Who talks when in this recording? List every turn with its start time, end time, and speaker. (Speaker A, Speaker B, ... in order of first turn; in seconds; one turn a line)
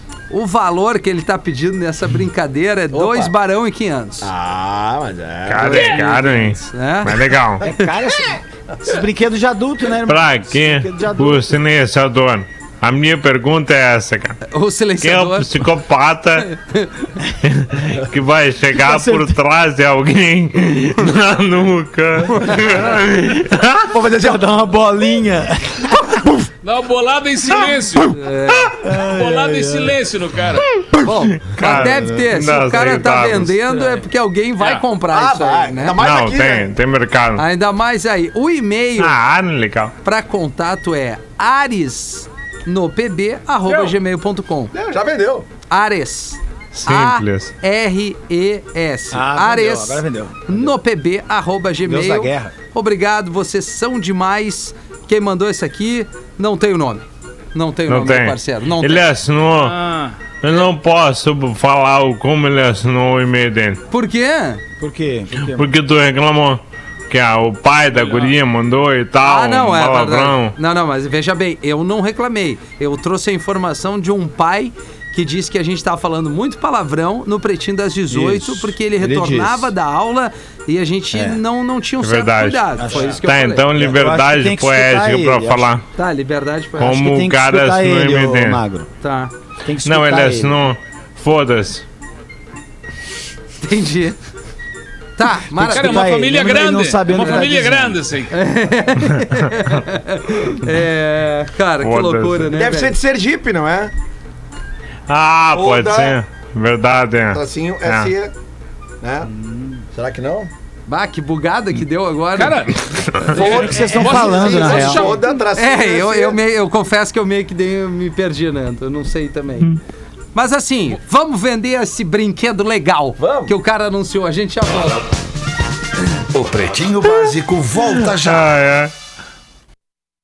Speaker A: 0.3-4.3
Speaker B: 2.9-3.3
Speaker B: 4.2-6.3
Speaker C: 5.5-7.6
Speaker A: 5.6-7.2
Speaker D: 7.6-11.6
Speaker C: 10.1-14.4
Speaker A: 14.5-15.5
Speaker C: 15.0-16.5
Speaker C: 17.4-23.9
Speaker D: 18.8-19.3
Speaker B: 23.9-24.4
Speaker D: 24.2-26.1
Speaker E: 26.6-28.2
Speaker A: 28.1-28.7
Speaker D: 28.8-29.9
Speaker E: 28.9-30.7
Speaker A: 31.0-36.0
Speaker C: 31.4-33.6
Speaker B: 35.1-36.7
Speaker C: 36.0-37.4
Speaker A: 37.4-39.2
Speaker C: 39.0-39.9
Speaker A: 40.0-44.7
Speaker B: 44.7-45.5
Speaker A: 45.7-59.1
Speaker C: 46.8-47.5
Speaker D: 49.1-50.7
Speaker D: 51.8-52.5
Speaker C: 57.9-59.8
Speaker C: 60.4-63.8
Speaker A: 63.9-64.6
Speaker D: 64.8-65.7
Speaker C: 65.5-70.5
Speaker A: 69.2-83.7
Speaker D: 78.1-79.7
Speaker D: 81.1-81.4
Speaker C: 82.0-85.8
Speaker D: 82.8-83.2
Speaker D: 83.7-85.7
Speaker A: 86.0-87.1
Speaker C: 86.8-88.6
Speaker D: 86.9-88.9
Speaker A: 89.0-89.3
Speaker D: 89.6-90.7
Speaker C: 89.8-91.8
Speaker A: 93.6-94.2
Speaker A: 95.2-96.1
Speaker D: 95.5-98.0
Speaker E: 95.7-98.3
Speaker A: 98.3-103.0
Speaker C: 101.8-102.5
Speaker B: 102.5-103.9
Speaker C: 105.1-108.1
Speaker B: 105.5-106.2
Speaker B: 107.3-108.3
Speaker B: 109.0-109.3
Speaker D: 109.3-109.8
Speaker B: 109.9-110.5
Speaker A: 110.9-112.7
Speaker E: 112.4-115.3
Speaker D: 113.3-115.2
Speaker B: 113.3-116.4
Speaker A: 115.5-119.8
Speaker A: 120.3-125.0
Speaker B: 123.2-123.5
Speaker F: 126.3-128.6
Speaker C: 127.8-128.9